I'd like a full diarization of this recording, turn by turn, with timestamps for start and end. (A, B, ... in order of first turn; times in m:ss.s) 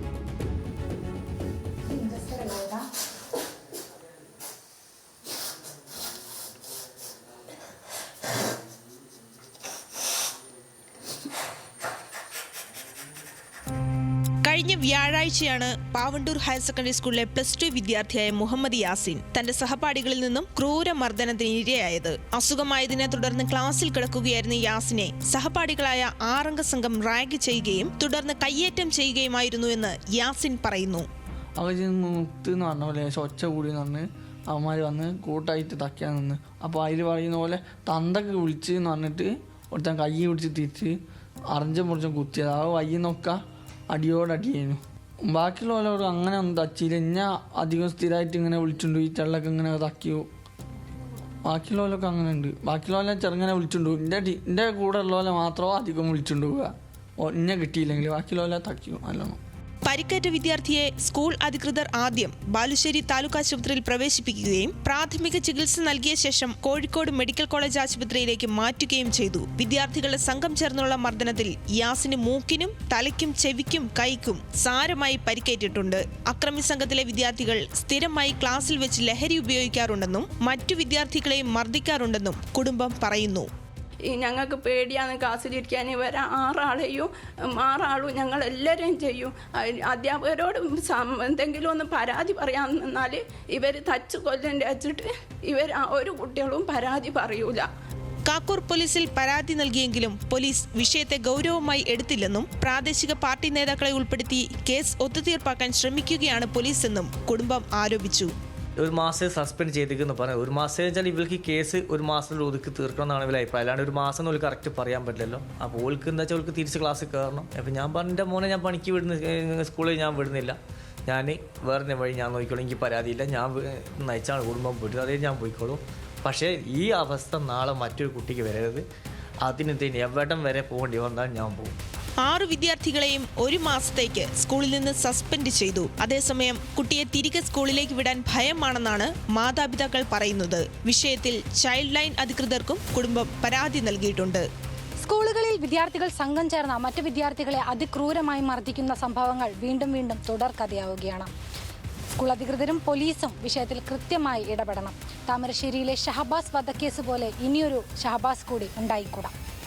0:01.9-0:02.8 A
0:14.4-0:31.1 B
0:31.6-0:41.0 C
0:41.5-0:50.3 C
0:51.4-0:59.4 C
0:59.8-1:23.5 B
1:24.1-1:37.7 D
1:38.3-1:48.3 B
1:48.8-2:08.8 E
2:09.4-2:11.8 E
2:12.2-2:24.4 B
2:25.0-2:31.3 A
2:32.2-2:39.3 A